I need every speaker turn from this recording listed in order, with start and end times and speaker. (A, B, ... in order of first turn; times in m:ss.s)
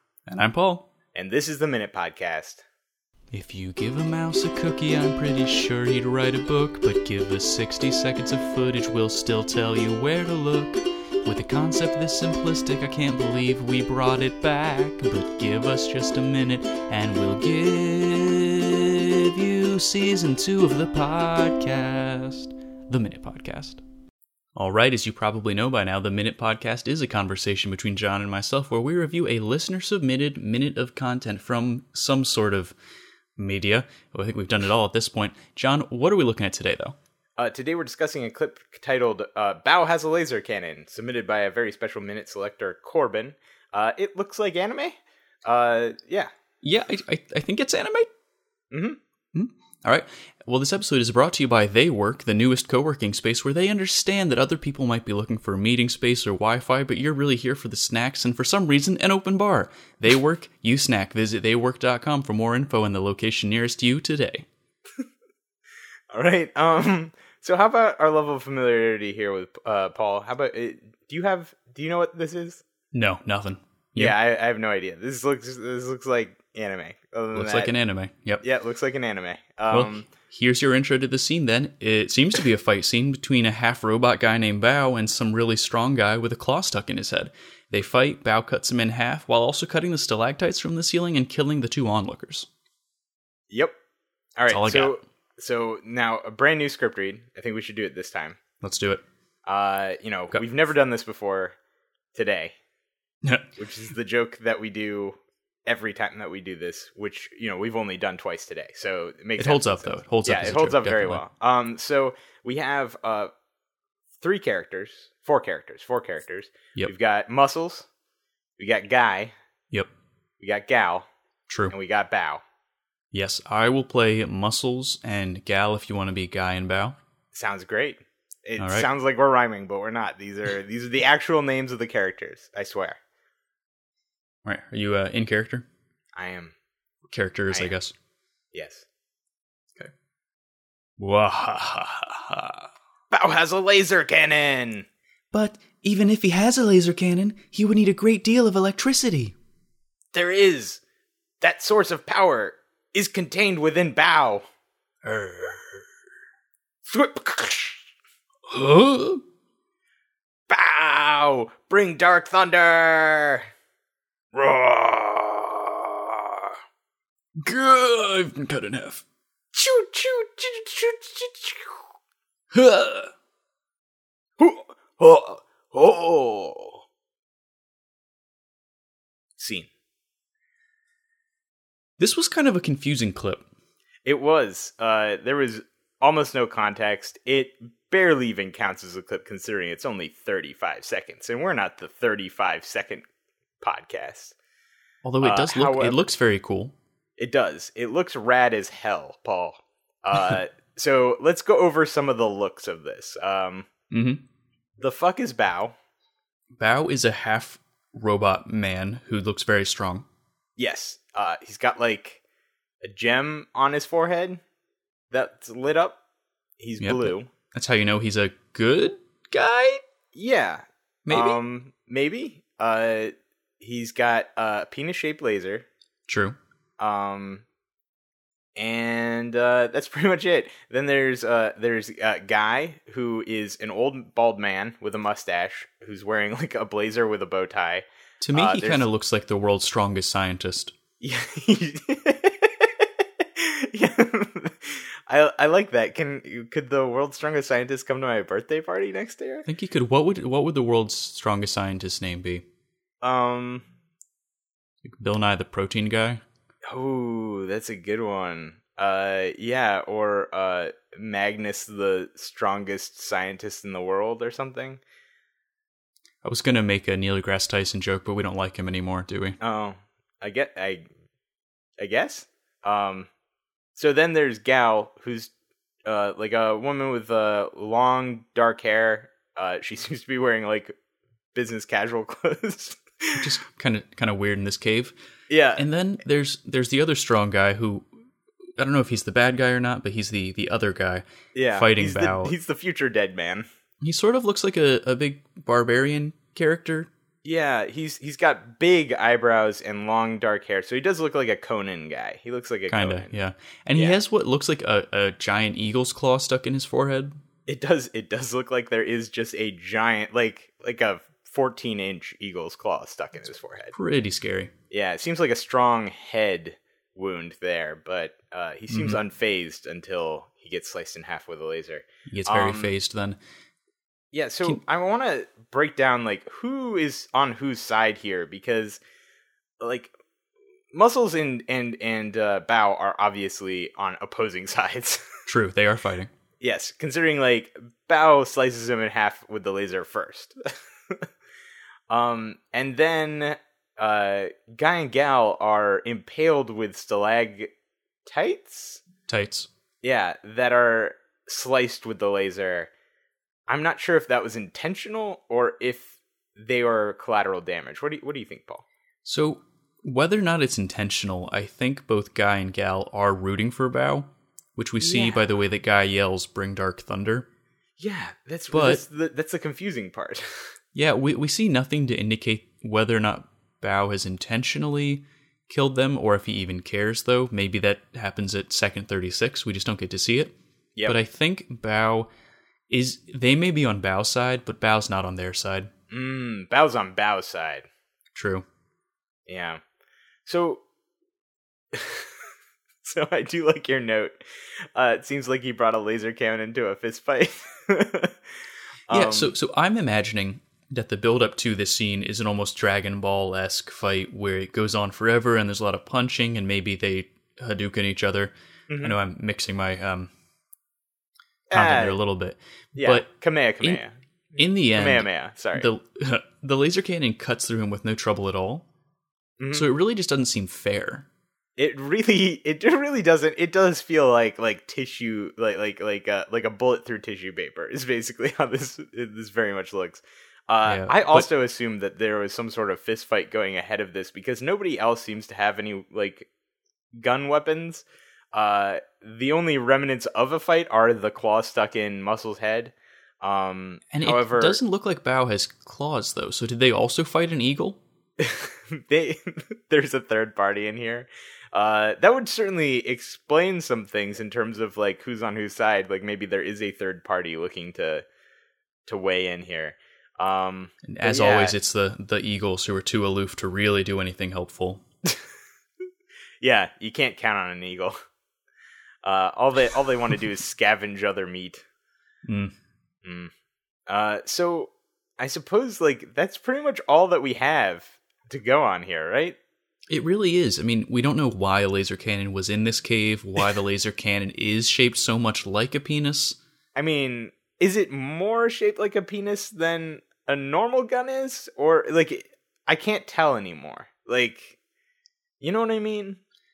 0:00.3-0:00.9 A
0:01.1-0:02.6 B
0:03.3-0:23.8 A
0:24.6-0:32.8 A
0:33.4-0:37.0 A
0:37.4-0:46.3 B
0:46.6-0:48.1 A
0:48.7-0:49.0 B
0:49.3-1:04.5 A
1:06.1-1:12.6 B
1:12.9-1:14.2 A
1:14.0-1:17.7 B
1:17.3-1:18.4 A
1:18.4-1:20.1 B
1:19.7-1:32.5 A
1:34.4-1:38.4 B
1:34.5-1:35.0 A
1:38.6-1:39.0 A
1:39.4-1:41.6 B
1:42.1-1:42.5 B
1:43.2-1:43.5 A
1:43.6-1:53.3 B
1:49.4-1:51.2 A
1:54.2-1:57.9 B
1:58.6-1:59.3 B
2:00.4-2:01.1 B
2:01.5-2:01.7 A
2:01.7-2:02.4 B
2:03.1-2:06.9 A
2:07.3-2:13.0 B
2:08.6-2:08.9 A
2:14.4-2:15.6 A
2:16.2-2:16.5 B
2:17.1-2:17.9 A
2:18.5-2:18.8 B
2:21.0-2:22.7 A
2:23.1-2:24.8 B
2:25.3-2:29.4 A
2:30.1-2:30.8 B
2:31.4-2:34.4 B
2:35.0-2:35.8 A
2:36.8-2:37.8 B
2:38.5-2:39.2 A
2:40.5-2:43.4 B
2:44.3-2:46.5 B
2:47.4-2:49.0 A
2:49.5-2:51.8 B
2:52.5-2:53.1 A
2:54.4-2:56.8 B
2:59.4-2:59.7 B
3:02.0-3:03.4 A
3:04.0-3:13.0 B
3:13.6-3:14.3 B
3:15.0-3:16.7 A
3:15.2-3:16.0 B
3:17.2-3:23.7 B
3:23.9-3:24.2 A
3:24.8-3:25.7 B
3:26.6-3:30.0 A
3:30.6-3:32.2 B
3:32.8-3:34.4 B
3:35.1-3:36.0 B
3:36.6-3:37.3 B
3:36.8-3:39.8 A
3:40.1-3:45.6 B
3:41.0-3:41.4 A
3:46.1-3:46.4 A
3:46.8-3:47.4 B
3:48.6-3:58.9 B
3:58.2-4:00.7 A
4:01.0-4:09.5 B
4:09.4-4:12.4 A
4:13.0-4:13.6 B
4:14.8-4:16.2 A
4:16.7-4:24.8 B
4:26.2-4:29.4 A
4:29.4-4:30.9 B
4:31.8-4:33.1 B
4:33.8-4:35.3 B
4:35.8-4:40.7 B
4:41.3-4:43.3 B
4:43.2-4:45.0 A
4:45.3-4:45.6 B
4:45.6-4:47.9 A
4:48.6-4:52.3 A
4:51.3-4:53.4 B
4:53.8-4:56.9 A
4:57.2-5:03.1 B
5:02.7-5:07.2 A
5:07.5-5:13.7 B
5:13.7-5:14.5 A
5:14.7-5:22.7 B
5:18.7-5:19.0 A
5:22.1-5:23.2 A
5:24.1-5:28.8 B
5:29.6-5:29.9 B
5:30.7-5:35.0 B
5:35.3-5:36.1 A
5:36.4-5:40.4 B
5:41.9-5:47.5 B
5:48.0-5:48.8 B
5:49.1-5:49.5 A
5:49.8-5:52.7 B
5:53.5-5:58.6 B
5:59.0-6:07.3 A
6:04.8-6:05.3 B
6:07.8-6:10.4 B
6:08.5-6:08.8 A
6:10.7-6:20.3 A
6:20.8-6:21.0 B
6:20.8-6:22.1 A
6:22.7-6:25.7 A
6:25.9-6:27.6 B
6:28.1-6:28.4 A
6:29.3-6:29.6 B
6:30.2-6:30.6 B
6:31.7-6:32.1 B
6:32.8-6:34.2 B
6:34.7-6:38.1 B
6:38.9-6:39.3 B
6:38.9-6:50.1 A
6:48.7-6:49.0 B
6:51.5-6:52.0 B
6:51.5-6:53.1 A
6:52.7-6:53.9 B
6:54.4-6:58.6 A
6:54.7-6:55.7 B
6:59.4-6:59.7 B
6:59.5-7:01.1 A
7:01.6-7:16.3 B
7:10.6-7:11.2 A
7:16.9-7:24.6 B
7:23.9-7:27.8 A
7:28.2-7:38.0 B
7:38.8-7:41.6 B
7:40.8-7:44.8 A
7:46.4-7:48.0 B
7:49.0-7:51.6 B
7:52.2-7:52.5 A
7:53.0-7:53.3 B
7:53.9-7:59.4 B
7:59.9-8:06.4 A
8:06.7-8:14.6 B
8:15.4-8:16.2 B